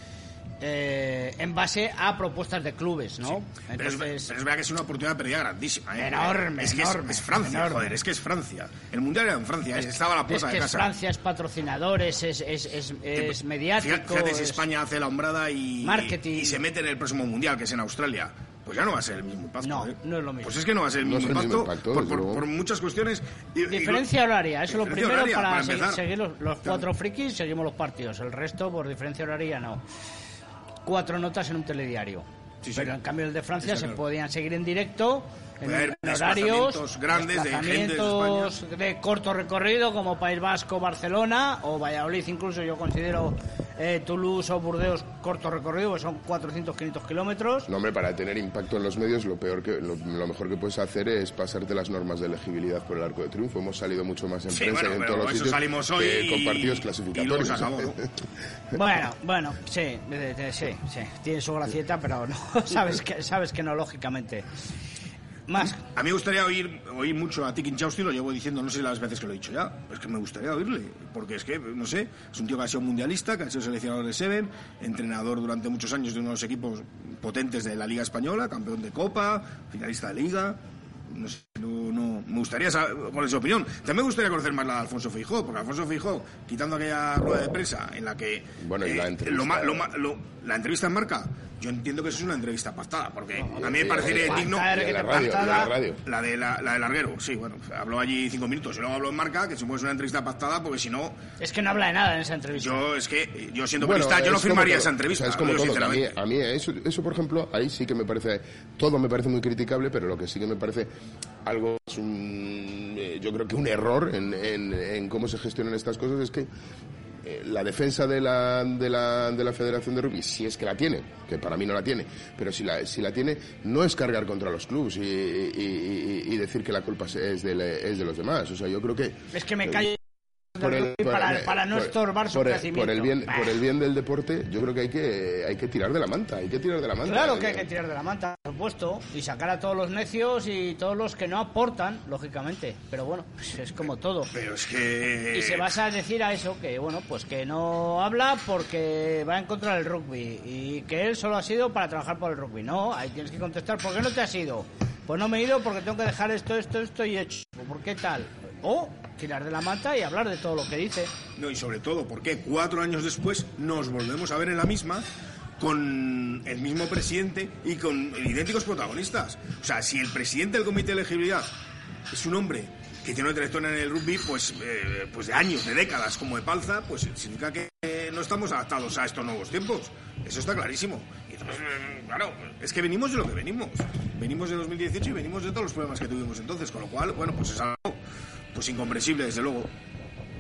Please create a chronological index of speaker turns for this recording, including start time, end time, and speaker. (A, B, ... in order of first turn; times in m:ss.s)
0:00.6-0:04.3 A
0:03.3-0:10.9 B
0:06.0-0:07.9 A
0:10.3-0:14.6 A
0:13.1-0:24.1 B
0:15.8-0:16.6 A
0:19.6-0:20.6 A
0:21.0-0:22.4 C
0:23.7-0:29.8 A
0:24.7-0:26.0 B
0:30.8-0:47.7 A
0:32.6-0:32.9 B
0:33.6-0:34.0 B
0:35.6-0:38.5 B
0:47.7-0:58.0 C
0:54.5-0:58.0 B
0:58.7-1:04.4 A
1:05.5-1:05.8 A
1:05.8-1:41.2 B
1:28.6-1:29.9 C
1:33.4-1:35.7 A
1:33.6-1:36.0 C
1:41.4-1:42.9 A
1:42.6-1:46.2 B
1:43.8-1:50.9 C
1:51.4-1:56.5 C
1:57.2-2:09.9 C
2:09.3-2:10.0 A
2:10.6-2:13.5 A
2:10.6-2:17.7 C
2:17.1-2:24.3 A
2:24.3-2:25.7 B
2:25.3-2:41.1 A
2:41.4-2:45.0 B
2:45.6-2:51.5 B
2:52.1-3:08.0 B
3:08.5-3:09.7 B